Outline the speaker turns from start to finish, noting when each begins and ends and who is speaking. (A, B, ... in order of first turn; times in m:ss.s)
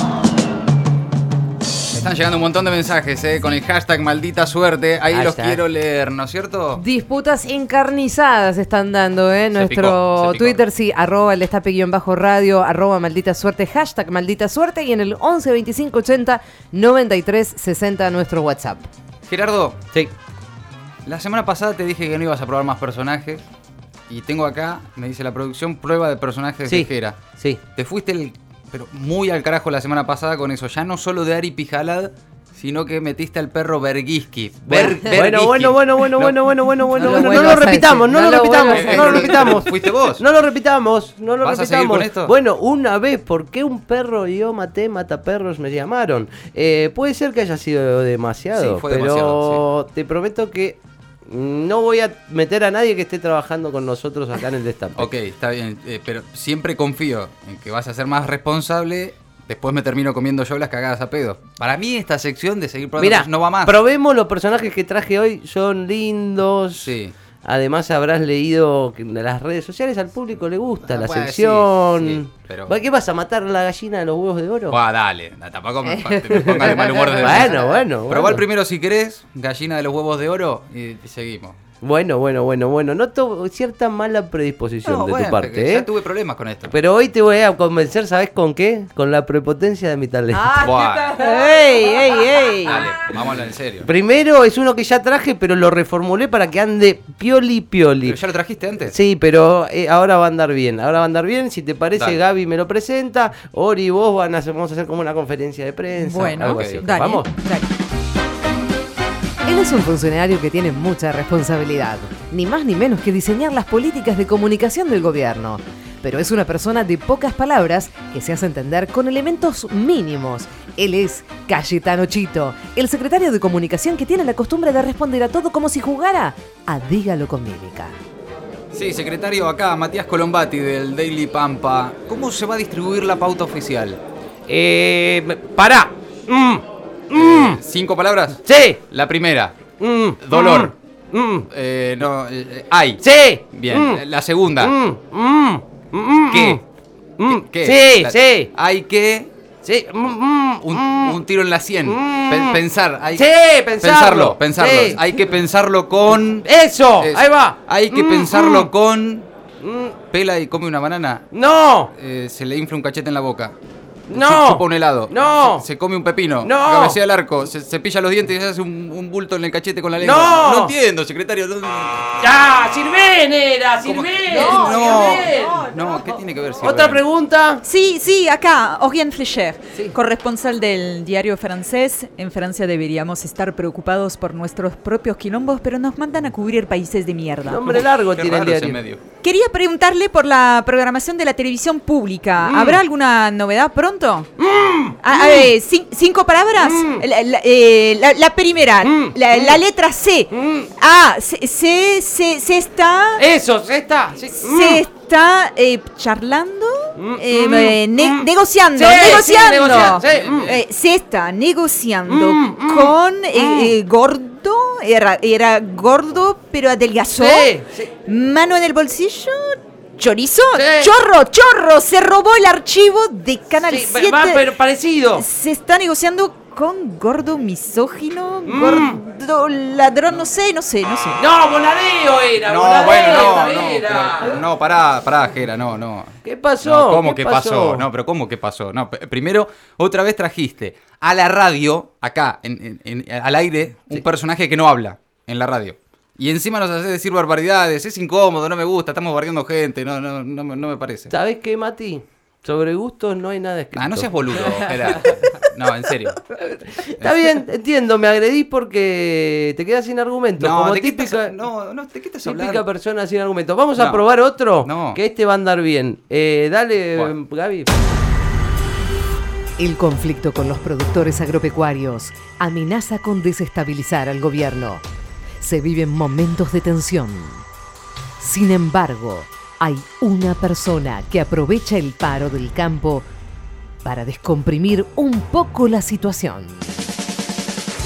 0:01.9-0:06.8 A
0:05.1-0:05.6 B
0:06.8-0:18.9 C
0:09.5-0:10.6 A
0:19.2-0:19.8 A
0:21.0-0:23.4 A
0:24.1-0:27.2 A
0:26.6-0:27.6 B
0:27.7-0:37.6 A
0:34.6-0:55.1 B
0:37.0-0:39.5 C
0:38.7-0:40.2 A
0:41.4-0:42.3 A
0:48.5-0:49.6 A
0:55.0-1:03.8 A
1:03.0-1:14.8 B
1:06.8-1:07.1 A
1:10.8-1:12.8 A
1:14.7-1:21.6 A
1:16.0-1:17.6 C
1:16.4-1:18.4 B
1:21.8-1:25.9 B
1:24.8-1:26.7 A
1:26.7-1:30.7 B
1:30.3-1:32.8 C
1:30.6-1:31.2 A
1:31.2-1:32.8 D
1:32.6-1:33.9 A
1:33.8-1:38.2 B
1:38.0-1:38.9 A
1:38.8-1:47.3 B
1:46.0-1:47.7 D
1:46.5-1:46.9 A
1:49.4-2:08.0 C
2:08.7-2:14.0 A
2:14.5-2:17.6 B
2:17.1-2:19.6 A
2:18.4-2:18.8 B
2:19.8-2:21.5 B
2:20.2-2:20.7 A
2:21.5-2:24.7 A
2:23.0-2:24.0 B
2:24.6-2:26.6 B
2:26.3-2:26.6 A
2:27.2-2:28.5 B
2:27.2-2:29.3 A
2:29.6-2:31.2 B
2:30.6-2:33.3 A
2:31.8-2:32.6 B
2:33.1-2:35.0 B
2:33.8-2:39.3 A
2:36.1-2:38.7 B
2:39.6-2:40.0 B
2:40.1-2:41.3 A
2:41.3-2:41.9 B
2:41.9-2:43.5 A
2:44.1-2:45.6 B
2:44.1-2:52.2 A
2:46.4-2:47.0 B
2:50.0-2:50.7 B
2:52.2-2:55.5 B
2:53.8-2:57.0 A
2:54.3-2:55.7 D
2:56.6-2:57.6 B
2:57.6-3:07.8 D
3:07.4-3:08.8 B
3:07.7-3:09.0 A
3:09.2-3:14.3 D
3:12.4-3:12.8 B
3:14.4-3:15.5 B
3:15.0-3:23.2 D
3:16.6-3:17.0 B
3:18.8-3:19.6 B
3:20.3-3:20.6 B
3:23.2-3:24.8 B
3:24.4-3:37.5 D
3:27.0-3:30.5 B
3:29.1-3:30.5 A
3:32.1-3:33.7 B
3:37.1-3:37.9 B
3:38.0-3:44.5 D
3:40.5-3:40.9 B
3:43.7-3:45.2 B
3:45.1-3:51.2 D
3:48.4-3:49.0 B
3:51.2-3:54.4 B
3:52.4-4:11.1 A
3:56.2-3:57.8 B
4:11.1-4:14.5 B
4:13.8-4:16.2 A
4:16.3-4:21.3 B
4:17.0-4:17.3 A
4:20.4-4:22.6 A
4:22.2-4:27.7 B
4:23.8-4:25.0 A
4:29.6-4:34.8 C
4:35.4-4:37.4 C
4:38.2-4:43.1 C
4:43.8-4:46.7 C